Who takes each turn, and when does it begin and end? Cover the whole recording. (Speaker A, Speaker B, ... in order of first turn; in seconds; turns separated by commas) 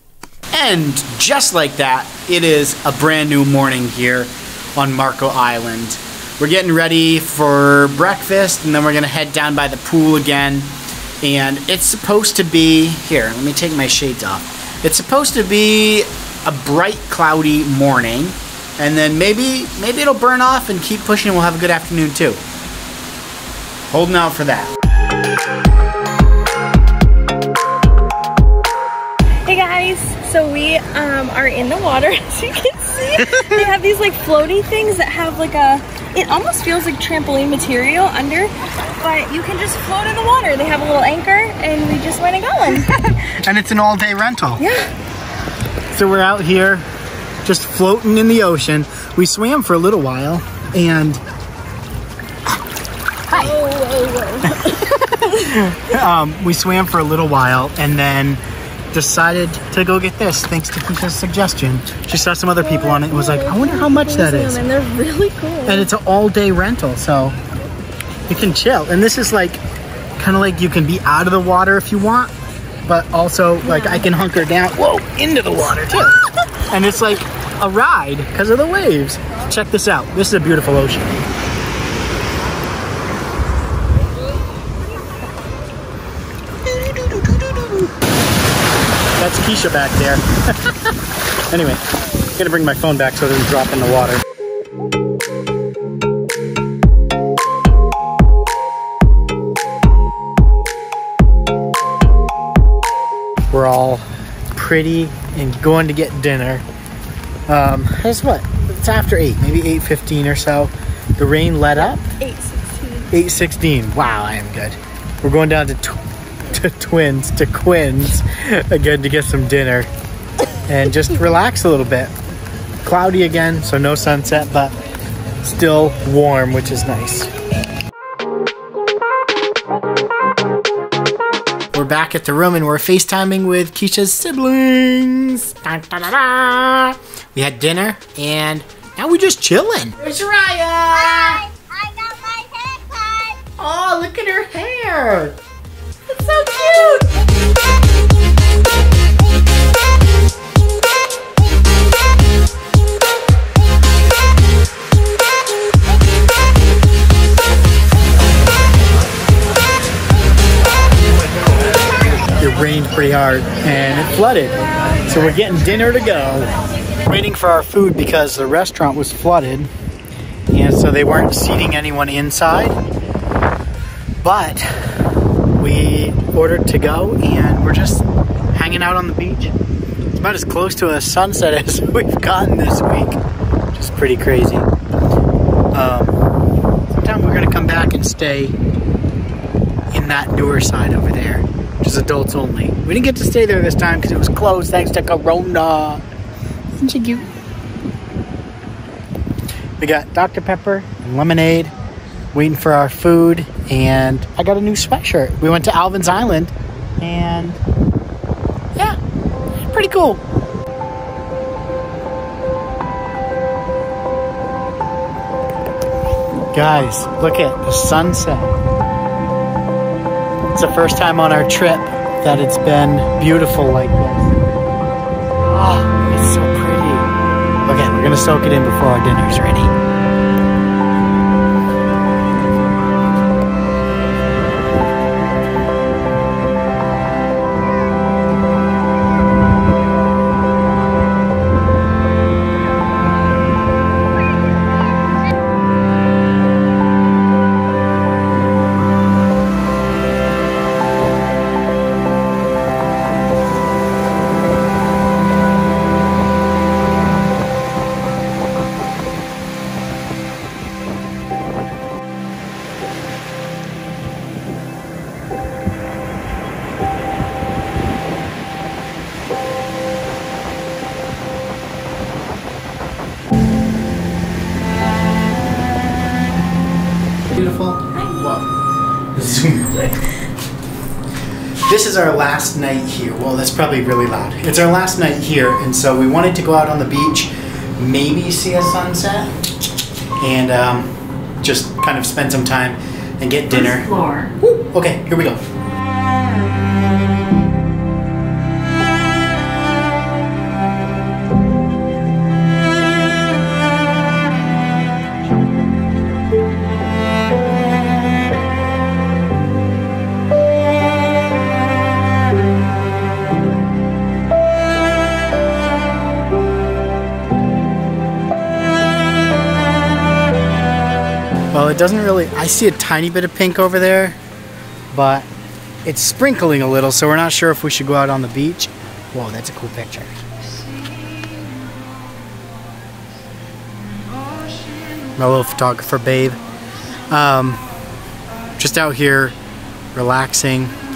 Speaker A: 0.5-22.4, Speaker A: 23.9-24.8, Speaker B: 29.4-43.2, Speaker A: 33.3-33.6, Speaker A: 43.2-44.6, Speaker B: 44.6-44.9, Speaker A: 45.9-46.9, Speaker A: 47.4-51.2, Speaker B: 53.3-55.2, Speaker A: 54.5-58.4, Speaker A: 58.9-64.6, Speaker B: 62.6-65.9, Speaker A: 65.7-67.4, Speaker A: 68.3-69.6, Speaker A: 70.2-72.3, Speaker A: 72.8-81.2, Speaker B: 73.6-74.1, Speaker A: 86.7-87.9, Speaker A: 89.2-90.9, Speaker A: 91.5-94.2, Speaker A: 103.5-106.6, Speaker A: 107.5-112.0, Speaker B: 112.0-113.1, Speaker A: 113.1-119.9, Speaker A: 120.7-122.1, Speaker A: 122.8-124.7, Speaker A: 125.4-127.3, Speaker A: 131.7-141.5, Speaker B: 141.8-143.3, Speaker A: 143.6-145.4, Speaker A: 146.1-147.1, Speaker A: 162.4-166.5, Speaker A: 167.0-169.7, Speaker A: 170.5-172.8, Speaker A: 174.2-175.0, Speaker A: 175.6-179.6, Speaker A: 180.1-183.2, Speaker A: 183.7-184.7, Speaker A: 185.7-186.2, Speaker A: 186.9-188.6, Speaker A: 189.9-196.0, Speaker A: 196.8-197.3, Speaker A: 199.8-201.7, Speaker A: 202.3-207.6, Speaker A: 209.7-210.2, Speaker A: 216.5-218.6, Speaker A: 220.5-224.3, Speaker A: 225.4-227.1, Speaker A: 227.6-229.7, Speaker A: 277.3-278.5, Speaker A: 279.1-280.1, Speaker A: 281.6-289.3, Speaker A: 290.2-293.9, Speaker B: 293.7-294.4, Speaker A: 294.4-295.4, Speaker A: 321.5-324.2, Speaker A: 324.9-325.3, Speaker A: 325.8-330.2, Speaker A: 335.1-336.4, Speaker A: 337.1-337.6, Speaker A: 338.6-339.4, Speaker A: 339.9-340.7